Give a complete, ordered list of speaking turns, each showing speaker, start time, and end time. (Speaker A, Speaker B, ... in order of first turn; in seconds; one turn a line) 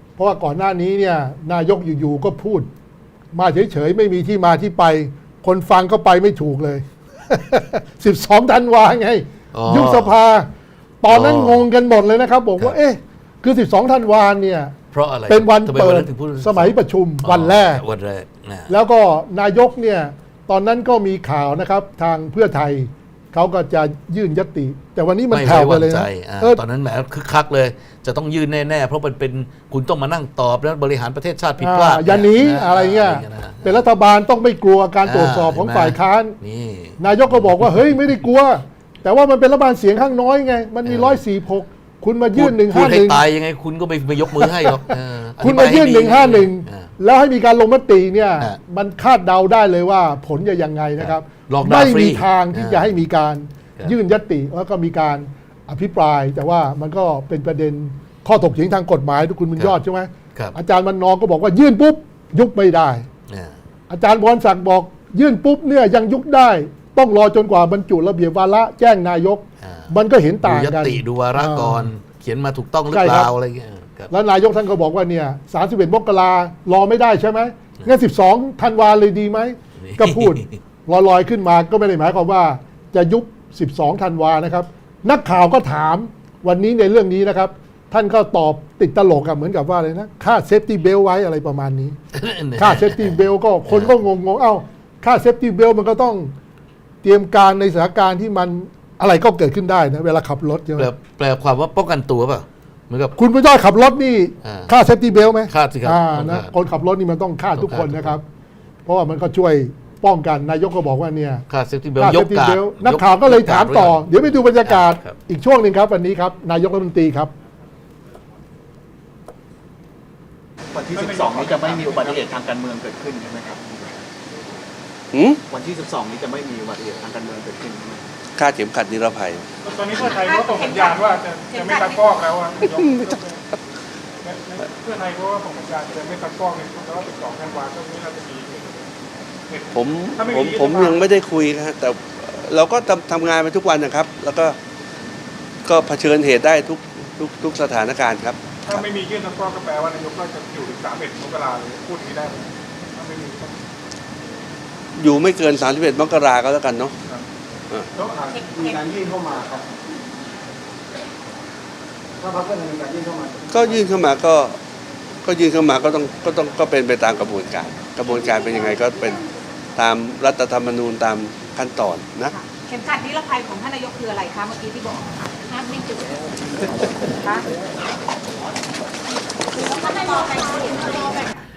Speaker A: 0.2-2.7
Speaker A: 3.3-10.5
Speaker B: 9.5-10.1
Speaker A: 11.0-14.7
Speaker B: 11.1-11.7
Speaker B: 14.9-18.7
Speaker A: 15.3-17.8
Speaker A: 18.7-26.6
Speaker B: 25.3-33.8
Speaker A: 31.6-36.4
Speaker B: 35.0-37.8
Speaker A: 37.0-43.2
Speaker B: 40.8-41.2
Speaker B: 42.4-46.9
Speaker A: 45.4-63.0
Speaker B: 51.0-52.9
Speaker A: 63.9-71.9
Speaker B: 69.6-69.9
Speaker B: 70.4-74.1
Speaker A: 72.9-73.3
Speaker A: 74.1-92.0
Speaker B: 79.8-80.6
Speaker B: 92.1-94.0
Speaker A: 92.6-96.3
Speaker A: 97.0-100.9
Speaker B: 100.8-103.2
Speaker A: 103.2-108.2
Speaker B: 104.4-104.7
Speaker B: 105.5-106.5
Speaker B: 107.5-108.2
Speaker A: 108.8-117.3
Speaker B: 111.5-114.1
Speaker B: 114.7-115.2
Speaker C: 120.8-123.8
Speaker D: 120.9-122.5
Speaker E: 125.1-125.4
Speaker C: 125.6-128.0
Speaker E: 128.3-129.4
Speaker D: 129.6-133.4
Speaker F: 130.0-132.1
Speaker E: 132.7-133.1
Speaker D: 134.2-138.9
Speaker D: 139.5-141.1
Speaker E: 139.7-144.6
Speaker E: 145.6-148.8
Speaker D: 148.6-153.6
Speaker E: 154.9-156.9
Speaker C: 158.2-159.0
Speaker F: 158.3-159.0
Speaker E: 163.5-164.6
Speaker E: 165.2-169.2
Speaker E: 169.8-172.3
Speaker F: 172.3-176.2
Speaker F: 177.2-177.4
Speaker F: 179.6-181.3